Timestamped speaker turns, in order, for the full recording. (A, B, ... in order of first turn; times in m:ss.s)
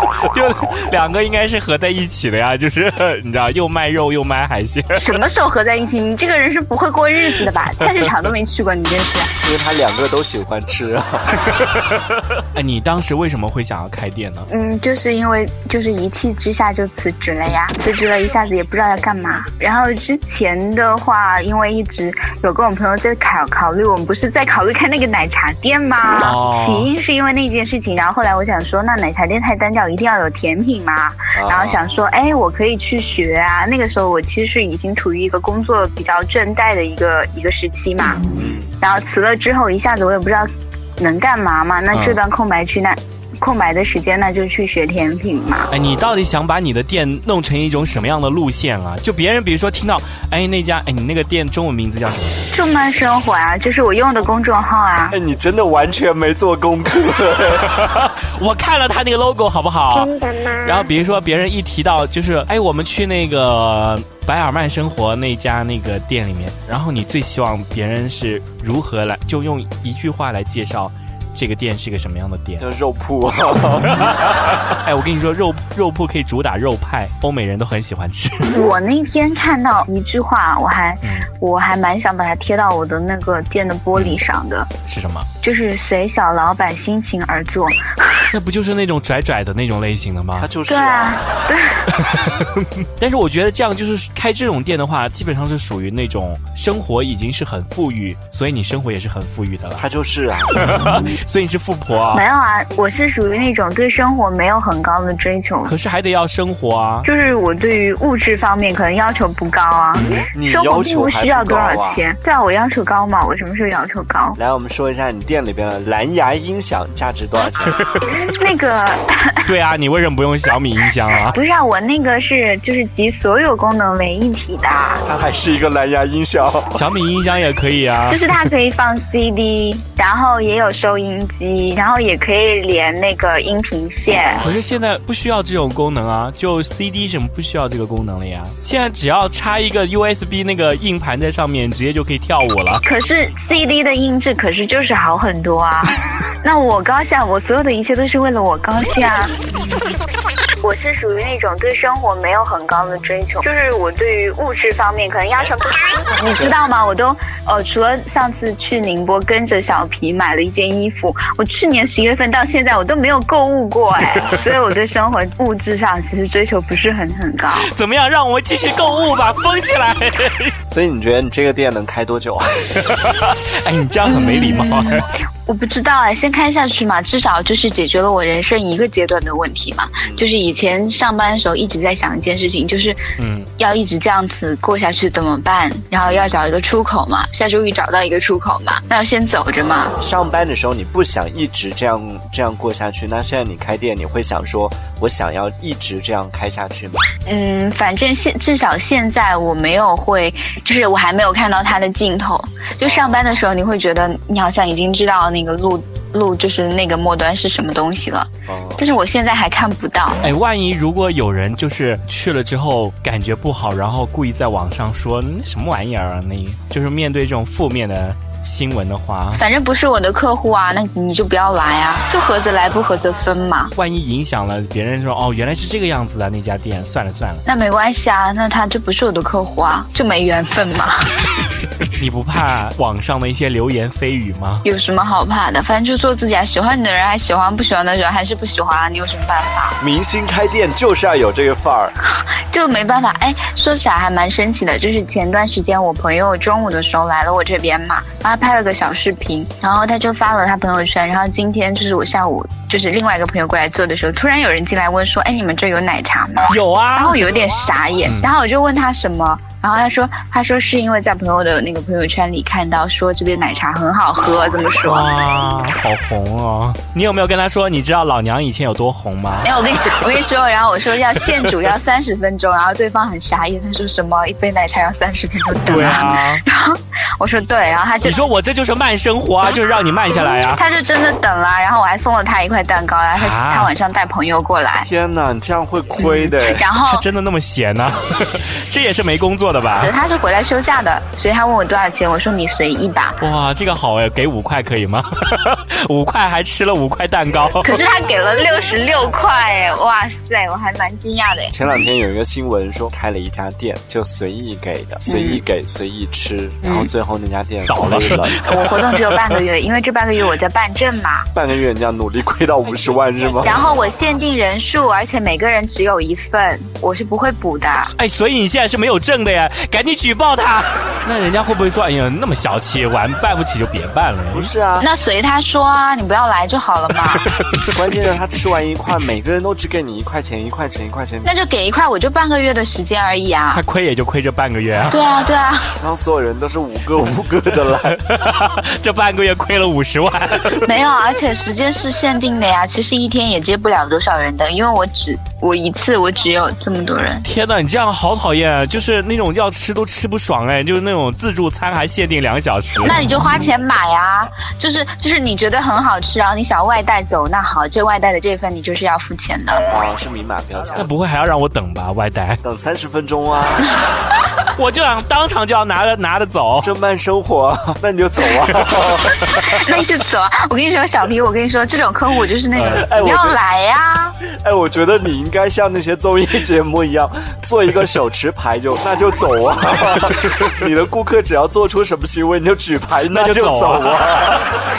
0:00.3-0:05.2 A
0:05.0-0:09.3 B
0:07.8-0:08.1 A
0:09.4-0:11.3 C
0:12.4-0:14.5 A
0:14.5-0:40.5 B
0:26.2-0:26.9 A
0:31.4-0:31.8 C
0:38.4-0:38.7 C
0:41.0-0:45.7 B
0:41.9-0:42.2 A
0:45.7-0:52.5 A
0:52.5-0:55.2 B
0:55.1-0:57.7 C
0:57.6-1:12.7 A
1:12.6-1:14.2 C
1:13.9-1:18.6 A
1:18.5-1:24.7 B
1:21.0-1:21.3 A
1:23.9-1:24.2 A
1:24.9-1:25.3 A
1:25.4-1:28.3 B
1:28.3-1:30.5 A
1:30.4-1:31.2 C
1:30.6-1:31.8 B
1:31.9-1:39.8 A
1:39.8-1:40.6 C
1:40.5-1:42.2 A
1:42.1-1:45.7 B
1:45.6-1:47.1 A
1:47.0-1:54.4 B
1:50.3-1:52.0 C
1:54.4-1:57.8 C
1:57.8-1:58.2 A
1:58.1-1:59.5 B
1:59.4-2:01.4 A
2:01.3-2:05.0 B
2:05.0-2:06.8 C
2:06.7-2:08.5 A
2:08.1-2:14.4 B
2:14.4-2:22.8 A
2:22.8-2:29.4 B
2:30.6-2:47.7 B
2:47.5-2:50.6 A
2:50.7-2:52.6 C
2:52.7-2:55.1 A
2:54.0-3:03.0 B
3:00.0-3:00.2 C
3:03.2-3:03.5 A
3:03.6-3:10.0 B
3:06.0-3:06.4 C
3:10.0-3:17.1 C
3:17.3-3:30.3 B
3:22.8-3:23.3 C
3:28.5-3:28.8 C
3:30.2-3:39.4 A
3:39.4-3:43.7 B
3:43.7-3:47.4 A
3:47.5-3:51.2 B
3:51.9-3:54.6 A
3:54.6-3:59.8 B
3:59.8-4:01.9 C
4:02.0-4:25.2 B
4:16.5-4:17.4 A
4:18.0-4:18.3 A
4:24.8-4:29.5 A
4:29.4-4:38.3 B
4:35.6-4:36.4 A
4:38.0-4:40.8 A
4:40.1-4:44.9 B
4:43.1-4:43.7 A
4:44.8-4:46.6 C
4:46.1-4:50.0 A
4:46.4-4:47.1 B
4:49.8-4:53.2 B
4:53.2-4:57.8 A
4:57.6-5:01.6 B
5:01.5-5:08.4 C
5:05.0-5:05.4 B
5:06.6-5:06.9 B
5:07.7-5:09.4 A
5:08.4-5:11.3 B
5:11.4-5:13.6 C
5:13.4-5:17.9 B
5:18.0-5:24.5 A
5:24.3-5:24.9 C
5:24.8-5:27.3 B
5:27.7-5:31.3 C
5:31.2-5:33.6 B
5:33.5-5:35.0 A
5:34.9-5:35.8 B
5:35.8-5:38.0 C
5:37.7-5:40.7 A
5:40.6-5:47.2 B
5:47.2-5:53.1 A
5:52.8-5:59.7 B
5:59.7-6:00.9 C
6:00.8-6:02.4 A
6:02.4-6:03.7 C
6:04.5-6:06.7 A
6:06.6-6:09.2 C
6:08.5-6:08.7 A
6:09.2-6:14.2 B
6:12.5-6:12.9 A
6:12.6-6:13.4 C
6:14.3-6:24.5 C
6:23.1-6:24.1 A